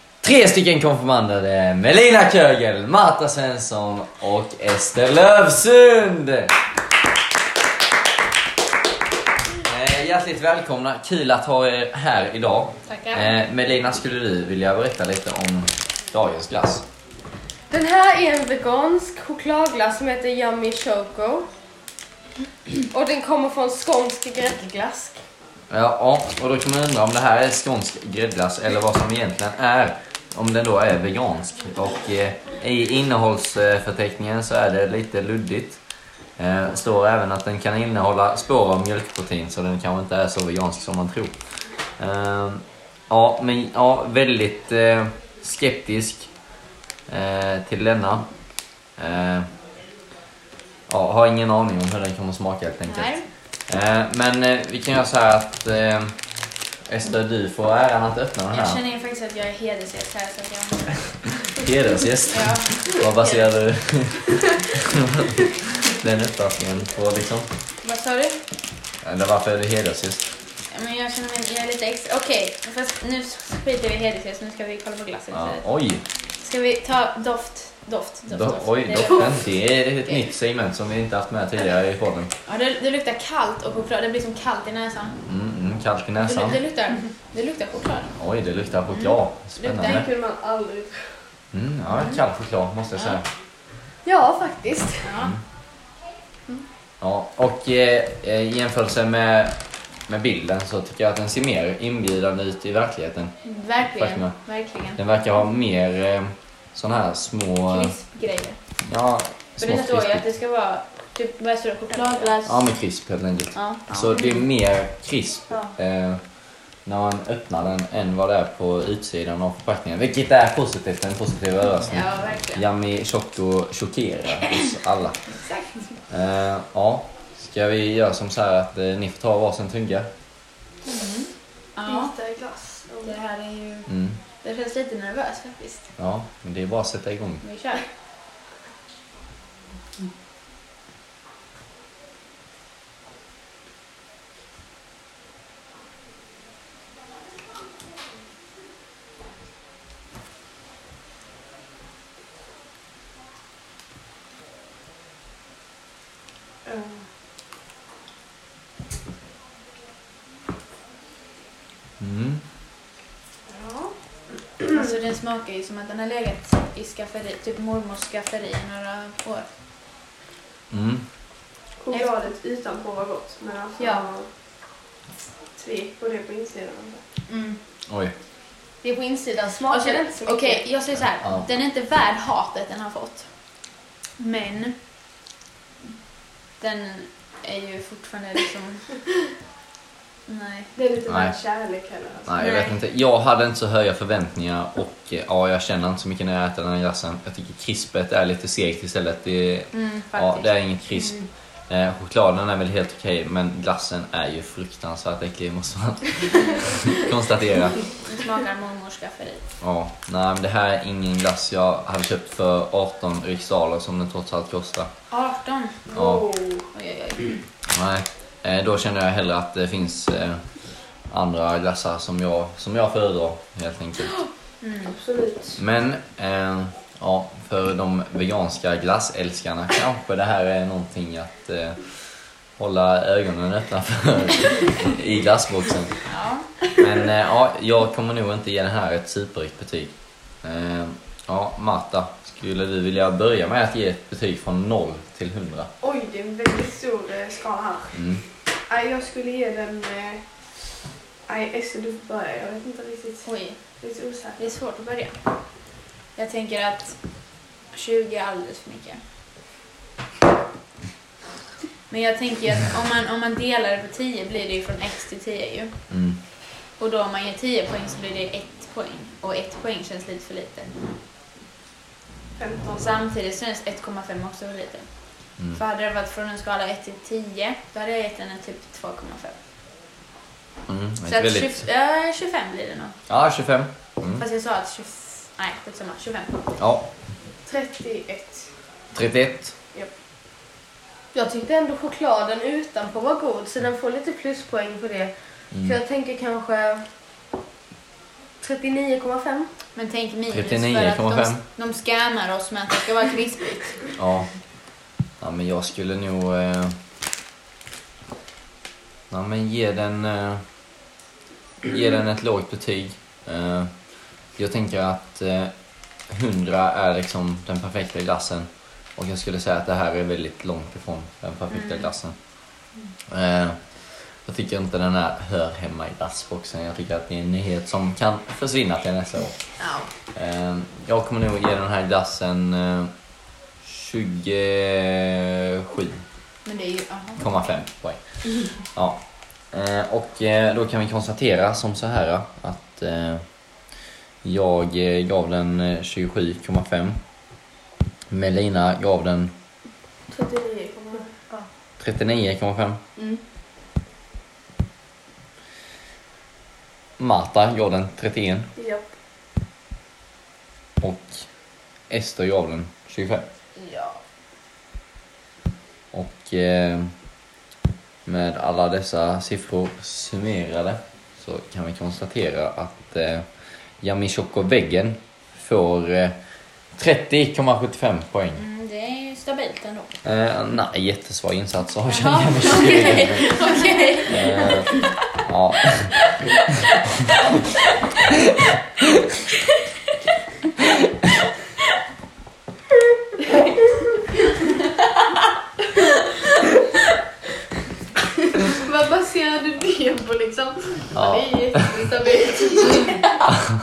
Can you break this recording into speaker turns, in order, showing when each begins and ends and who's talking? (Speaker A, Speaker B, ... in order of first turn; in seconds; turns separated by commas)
Speaker A: 0.2-6.5, Speaker A: 9.6-16.8, Speaker B: 12.9-13.2, Speaker C: 17.7-21.5, Speaker C: 22.9-25.2, Speaker A: 25.7-35.8, Speaker A: 36.4-41.4, Speaker A: 42.0-46.3, Speaker A: 47.1-48.3, Speaker A: 49.0-49.5, Speaker A: 50.9-56.2, Speaker B: 52.9-53.2, Speaker A: 56.9-58.8, Speaker B: 58.5-61.7, Speaker A: 61.5-67.5, Speaker B: 62.3-63.5, Speaker B: 67.8-68.4, Speaker A: 69.0-70.3, Speaker B: 70.7-75.6, Speaker A: 75.3-76.0, Speaker B: 76.4-79.5, Speaker A: 78.3-82.3, Speaker B: 82.5-85.2, Speaker A: 85.2-86.6, Speaker B: 86.2-88.1, Speaker A: 88.2-90.1, Speaker B: 88.9-90.1, Speaker C: 89.8-91.1, Speaker A: 91.5-93.2, Speaker C: 94.0-95.1, Speaker B: 95.0-95.3, Speaker A: 97.0-103.3, Speaker B: 103.4-105.0, Speaker A: 103.9-104.4, Speaker A: 104.9-107.9, Speaker B: 107.7-108.6, Speaker A: 108.8-110.2, Speaker B: 109.6-112.6, Speaker A: 112.4-116.2, Speaker B: 113.5-114.4, Speaker A: 116.8-125.4, Speaker B: 121.9-122.6, Speaker B: 125.4-125.7, Speaker A: 126.1-130.1, Speaker B: 130.8-132.1, Speaker C: 131.8-133.2, Speaker B: 133.0-133.9, Speaker A: 133.9-134.2, Speaker B: 134.4-135.9, Speaker A: 136.0-137.4, Speaker B: 137.4-137.8, Speaker C: 156.7-157.1, Speaker A: 162.0-162.4, Speaker C: 163.5-163.9, Speaker B: 164.6-169.5, Speaker A: 170.7-171.1, Speaker C: 171.8-174.3, Speaker B: 173.8-174.1, Speaker C: 175.6-177.0, Speaker B: 177.3-177.6, Speaker A: 177.9-178.1, Speaker C: 178.8-180.6, Speaker B: 179.7-183.3, Speaker B: 184.2-184.8, Speaker B: 186.6-188.9, Speaker B: 190.3-190.7, Speaker C: 190.8-192.3, Speaker A: 191.1-191.3, Speaker A: 192.2-207.8, Speaker B: 192.4-192.8, Speaker B: 199.7-201.3, Speaker B: 207.9-209.4, Speaker A: 209.6-214.9, Speaker B: 215.1-215.9, Speaker C: 215.9-216.7, Speaker A: 215.9-216.3, Speaker B: 216.7-217.4, Speaker A: 217.7-220.5, Speaker A: 221.1-224.2, Speaker B: 224.6-224.9, Speaker C: 224.9-225.6, Speaker A: 225.6-236.0, Speaker B: 236.0-236.5, Speaker A: 236.8-245.7, Speaker C: 245.8-248.0, Speaker A: 247.9-248.2, Speaker C: 248.7-250.2, Speaker C: 251.3-254.4, Speaker B: 253.2-253.6, Speaker B: 254.4-255.2, Speaker B: 256.1-259.0, Speaker B: 261.9-265.8, Speaker A: 265.9-266.2, Speaker B: 266.8-270.8, Speaker C: 272.4-272.9, Speaker B: 272.8-279.4, Speaker A: 280.7-281.6, Speaker B: 281.1-283.0, Speaker A: 283.1-284.2, Speaker B: 284.2-286.5, Speaker A: 286.6-286.8, Speaker C: 287.4-288.5, Speaker A: 288.9-289.5, Speaker C: 291.1-296.9, Speaker A: 295.5-295.8, Speaker C: 298.4-299.5, Speaker B: 299.7-303.9, Speaker A: 300.3-301.4, Speaker A: 303.9-304.3, Speaker A: 305.2-306.7, Speaker A: 309.1-310.4, Speaker A: 311.6-313.7, Speaker A: 314.3-315.5, Speaker A: 316.1-322.2, Speaker B: 321.6-321.8, Speaker A: 323.1-329.5, Speaker B: 329.6-329.9, Speaker A: 330.1-332.9, Speaker A: 333.6-336.0, Speaker B: 336.4-337.3, Speaker A: 337.2-343.2, Speaker A: 344.2-347.0, Speaker A: 348.1-349.3, Speaker C: 350.1-351.4, Speaker A: 351.8-352.8, Speaker C: 353.0-353.2, Speaker A: 357.0-358.5, Speaker C: 358.6-358.9, Speaker A: 360.8-361.2, Speaker A: 361.9-363.2, Speaker C: 363.6-363.9, Speaker A: 365.9-366.9, Speaker A: 368.1-373.2, Speaker A: 373.8-376.1, Speaker A: 376.7-378.4, Speaker B: 378.4-379.9, Speaker A: 380.0-383.3, Speaker B: 381.9-384.9, Speaker A: 384.1-385.9, Speaker C: 398.3-403.1, Speaker A: 400.9-401.7, Speaker B: 402.7-403.1